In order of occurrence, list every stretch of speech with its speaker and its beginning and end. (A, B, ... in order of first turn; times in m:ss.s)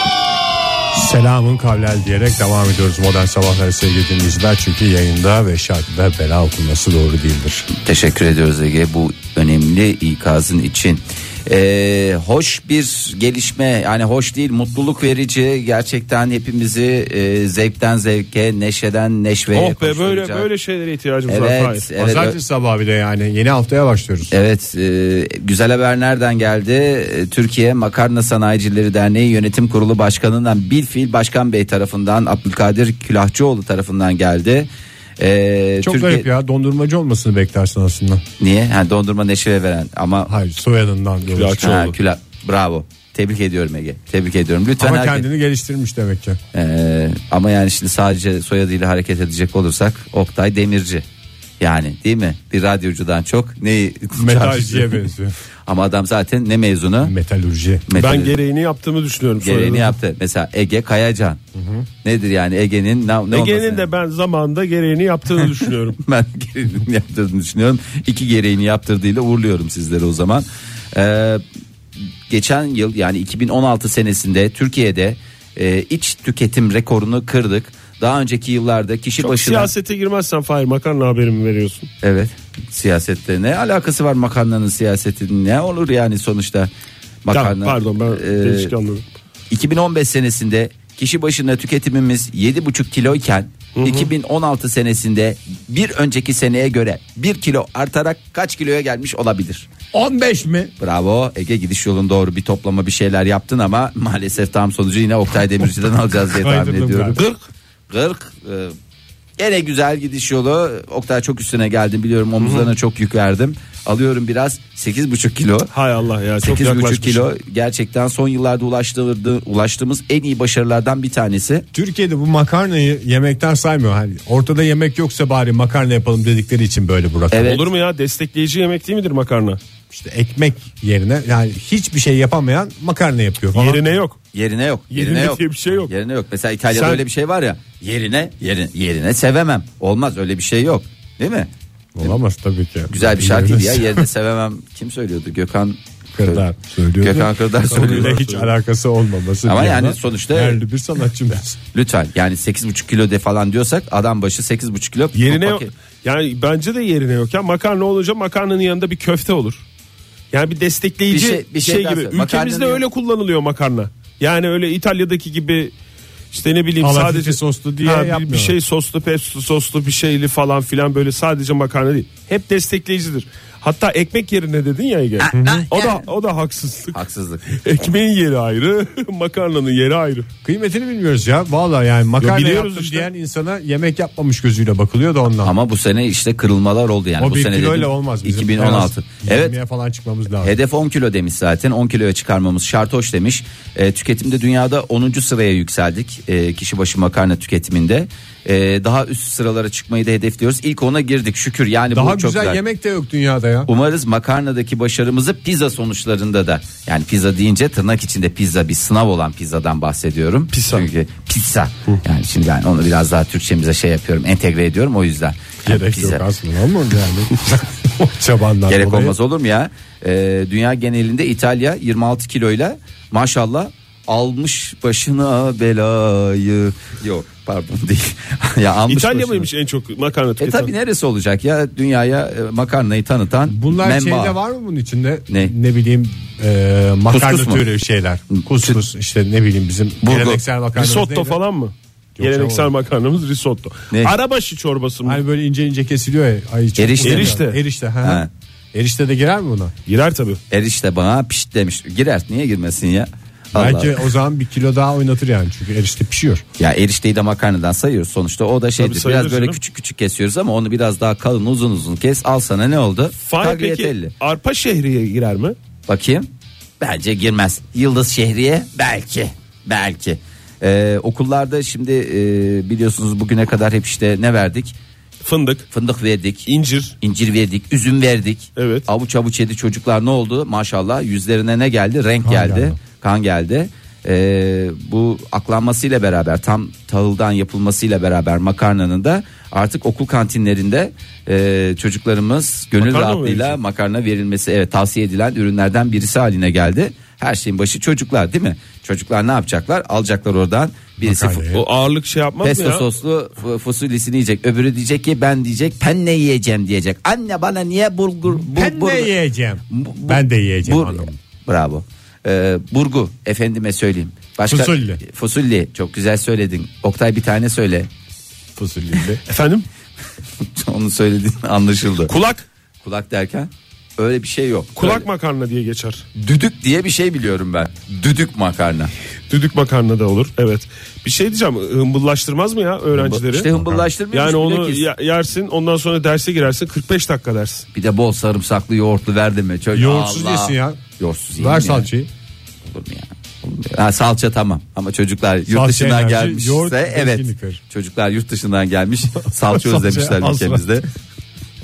0:00.9-0:07.7 A
0:07.7-0:20.5 B
0:19.5-0:21.9 C
0:21.3-0:22.4 B
0:22.0-0:24.3 A
0:24.3-0:36.3 B
0:35.8-0:38.2 A
0:38.4-0:40.3 B
0:40.3-0:41.7 A
0:41.3-0:41.9 C
0:41.6-0:45.2 B
0:44.8-0:46.4 A
0:46.5-0:51.0 B
0:51.6-0:55.0 B
0:54.2-0:55.4 A
0:55.7-0:57.1 B
0:57.0-0:57.8 A
0:57.9-0:58.4 B
0:58.0-1:00.0 C
0:59.4-1:01.4 B
1:01.6-1:01.8 A
1:02.0-1:03.8 B
1:03.3-1:06.0 C
1:06.0-1:11.4 B
1:12.3-1:19.7 B
1:19.2-1:21.9 C
1:22.0-1:26.7 B
1:27.2-1:28.7 B
1:27.3-1:29.0 C
1:29.5-1:39.7 B
1:33.8-1:34.1 C
1:39.9-1:40.7 A
1:40.8-1:47.3 B
1:46.3-1:47.2 A
1:47.9-1:48.8 B
1:49.4-1:55.7 B
1:52.4-1:52.7 C
1:55.7-1:57.3 C
1:56.4-2:01.6 B
2:01.7-2:07.6 A
2:07.3-2:07.6 B
2:07.4-2:09.6 C
2:09.9-2:13.9 A
2:13.5-2:14.2 C
2:14.3-2:21.5 B
2:14.9-2:15.9 C
2:16.7-2:17.0 C
2:21.9-2:24.1 A
2:22.9-2:26.4 B
2:26.1-2:31.6 A
2:27.0-2:28.2 B
2:27.6-2:28.5 C
2:29.4-2:30.6 B
2:31.7-2:35.7 B
2:35.1-2:39.6 C
2:40.3-2:45.7 C
2:41.1-2:42.8 B
2:46.3-3:00.3 C
2:46.8-2:48.6 A
2:55.2-2:56.1 B
2:55.3-2:55.6 A
2:56.9-2:57.4 B
3:00.4-3:05.5 A
3:02.2-3:03.1 C
3:05.4-3:09.5 B
3:07.2-3:10.6 A
3:10.4-3:22.6 B
3:21.9-3:23.7 A
3:23.7-3:36.2 B
3:30.5-3:30.9 C
3:35.6-3:39.1 A
3:38.7-3:49.5 B
3:48.9-3:50.7 C
3:50.4-3:54.4 B
3:53.5-4:01.4 A
3:57.1-3:57.6 B
3:58.3-3:58.8 B
4:00.0-4:00.4 B
4:00.7-4:05.2 C
4:02.2-4:02.7 A
4:05.0-4:09.7 A
4:06.8-4:07.4 B
4:07.0-4:07.6 C
4:08.0-4:08.3 B
4:09.9-4:10.4 C
4:10.5-4:14.0 B
4:13.5-4:16.4 A
4:16.6-4:24.1 B
4:18.8-4:19.6 C
4:23.2-4:25.6 C
4:25.9-4:26.3 B
4:26.8-4:34.8 B
4:35.2-4:35.7 C
4:35.7-4:36.5 B
4:36.4-4:36.9 C
4:37.0-5:01.4 B
4:38.6-4:38.8 C
4:42.2-4:42.8 A
4:52.8-4:53.6 C
5:01.0-5:01.6 A
5:01.5-5:02.8 C
5:02.4-5:09.1 B
5:08.4-5:11.2 A
5:09.7-5:17.9 B
5:14.5-5:15.0 A
5:18.6-5:19.2 A
5:19.2-5:19.7 C
5:20.4-5:22.1 B
5:22.1-5:22.4 C
5:22.8-5:25.0 B
5:24.8-5:26.0 C
5:26.1-5:28.9 B
5:29.3-5:33.5 C
5:33.0-5:34.8 B
5:33.5-5:33.9 A
5:34.1-5:37.6 C
5:37.7-5:41.9 B
5:39.7-5:40.8 A
5:41.4-5:42.1 A
5:42.6-5:50.9 B
5:45.5-5:47.6 A
5:49.2-5:50.8 A